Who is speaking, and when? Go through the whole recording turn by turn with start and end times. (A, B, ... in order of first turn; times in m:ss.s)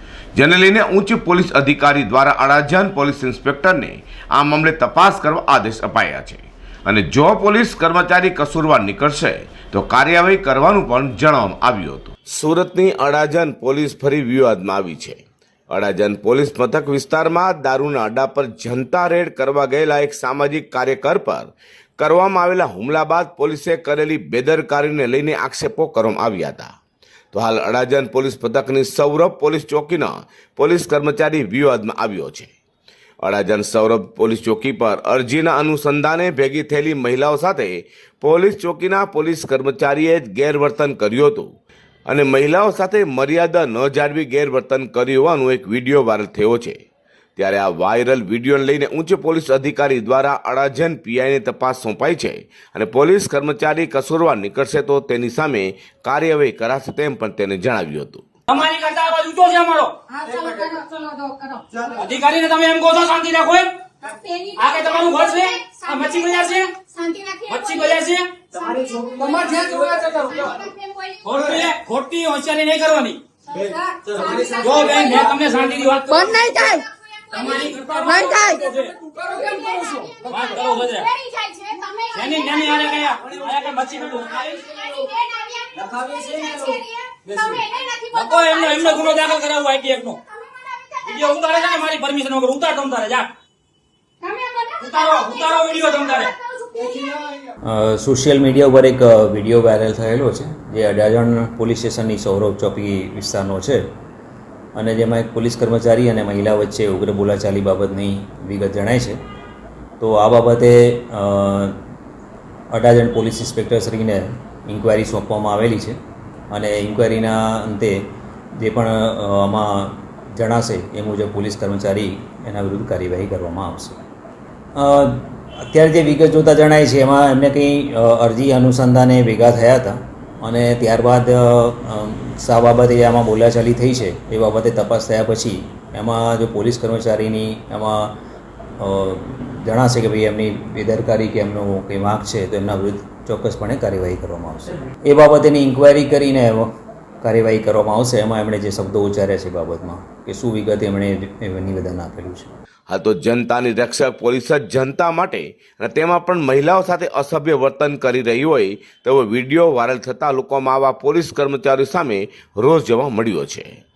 0:00.3-0:26.7 A
0:27.3-0:32.5 A
0:33.2-0:41.5 A
0:42.1-0:46.8 A
0:47.4-0:58.2 A
0:58.5-1:00.0 B
1:00.1-1:01.7 C
1:01.9-1:03.7 B
1:04.0-1:08.0 C
1:04.6-1:06.7 B
1:07.5-1:08.4 B
1:08.5-1:11.4 C
1:09.2-1:10.5 B
1:11.2-1:13.2 B
1:13.5-1:15.3 C
1:14.2-1:16.8 B
1:16.2-1:23.1 C
1:17.3-1:21.1 B
1:22.1-1:25.1 B
1:24.5-1:29.4 C
1:26.0-1:26.6 B
1:27.3-1:30.2 B
1:30.3-1:31.8 C
1:31.0-1:33.3 B
1:34.2-1:37.3 C
1:34.8-1:36.3 B
1:37.7-1:43.8 D
1:44.8-1:49.2 D
1:50.0-1:51.8 D
1:52.7-1:56.0 D
1:56.5-1:58.0 D
1:58.6-2:04.0 D
2:04.8-2:18.1 D
2:18.8-2:26.7 D
2:27.2-2:32.5 D
2:32.9-2:43.8 A